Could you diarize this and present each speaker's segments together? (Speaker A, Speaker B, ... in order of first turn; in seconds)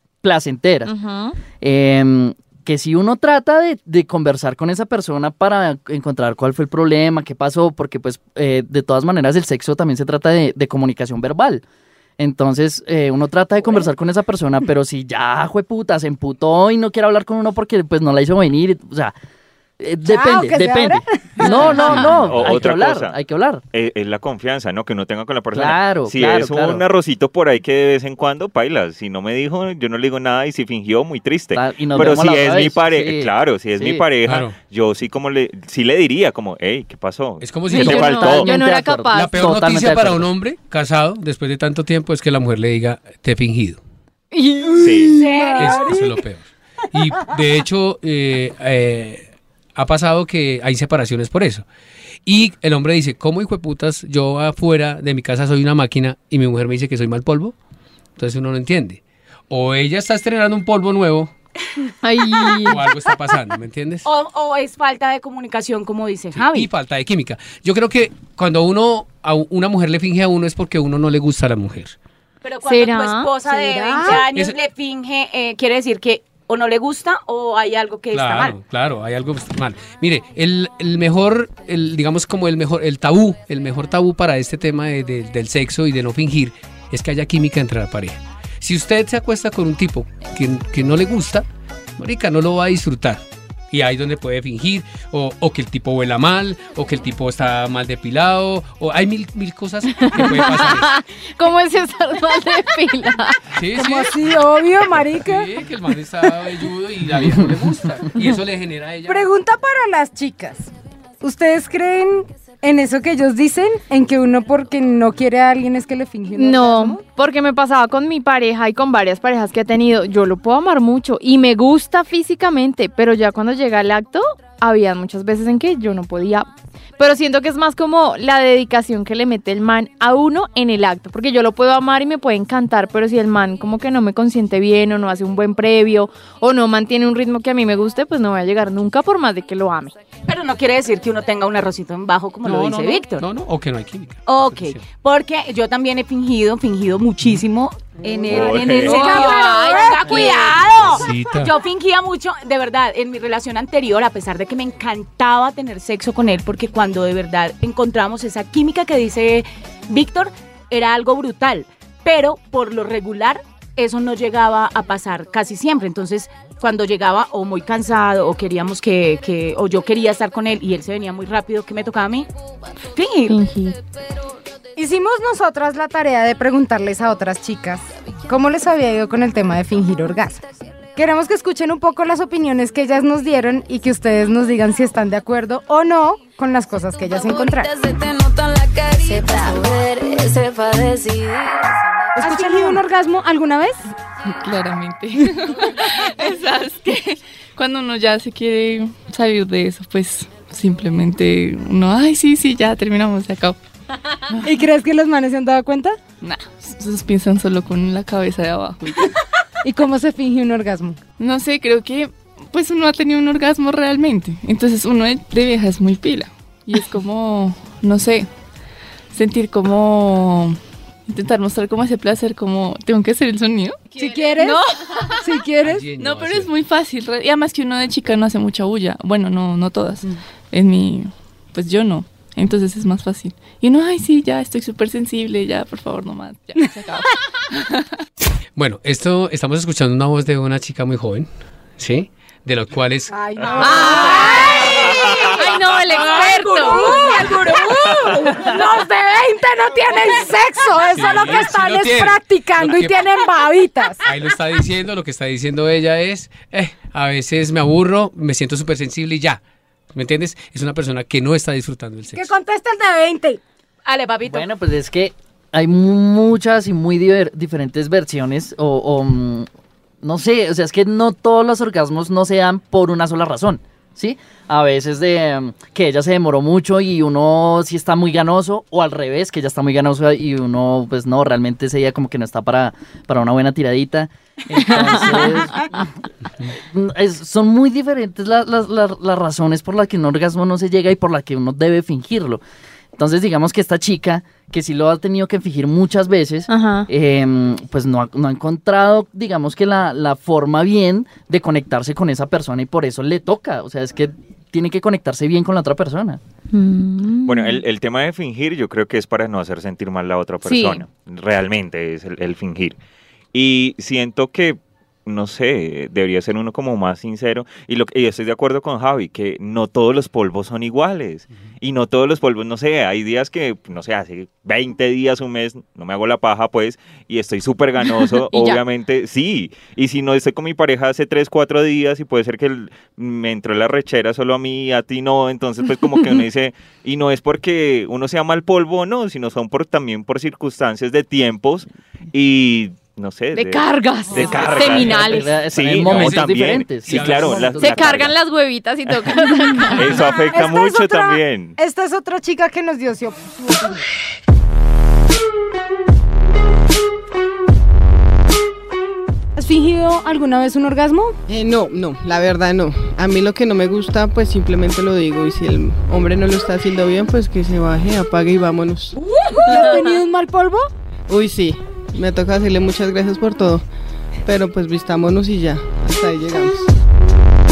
Speaker A: 0.2-0.9, 1.6-11.6, 12.2-19.1, 19.8-23.6, 25.5-26.8, 31.5-34.0, 37.7-40.3, 264.2-269.5, 270.0-285.9, 286.5-292.4, 293.0-306.2, 344.1-348.1
Speaker B: 0.8-1.4, 37.7-39.3, 44.3-45.0, 62.0-62.8, 72.7-73.3, 99.9-103.4, 116.4-139.9, 148.8-150.6, 173.3-173.8, 243.6-247.0, 284.6-285.1, 296.5-296.9, 306.5-307.6, 310.4-310.8, 328.3-328.6, 343.3-345.3, 347.6-349.9
Speaker C: 20.0-22.3, 44.7-46.2, 73.5-74.2, 103.7-105.5, 109.0-110.7, 111.2-117.0, 148.3-150.4, 174.8-180.4, 180.9-187.7, 192.2-193.8, 204.4-206.0, 209.6-211.0, 223.9-225.8, 243.1-245.3, 246.6-254.0, 262.1-263.4, 350.3-353.8, 359.4-361.1, 369.3-370.7
Speaker D: 22.2-23.1, 23.7-38.5, 44.8-45.1, 148.3-149.0, 307.2-312.8, 313.3-348.1, 349.7-351.6
Speaker E: 34.2-34.6, 37.4-38.3, 39.1-43.8, 45.6-51.6, 52.2-57.5, 58.2-61.3, 62.6-64.0, 66.3-71.9, 78.1-91.5, 92.0-100.9, 103.5-104.3, 105.0-109.3, 142.4-144.8, 150.9-151.5, 225.6-226.5, 238.6-243.1, 250.9-253.0, 254.0-259.4, 259.9-262.3, 345.8-347.6
Speaker F: 45.1-45.9, 64.0-66.7, 72.4-78.5, 140.3-143.2, 144.3-172.3, 172.9-173.3, 243.9-248.6, 263.9-264.5, 369.1-369.8
Speaker G: 187.0-192.4
Speaker H: 194.4-203.6, 206.2-209.1, 211.2-218.3, 219.1-223.9, 226.0-237.1
Speaker I: 361.3-368.9, 371.1-373.6, 374.2-376.7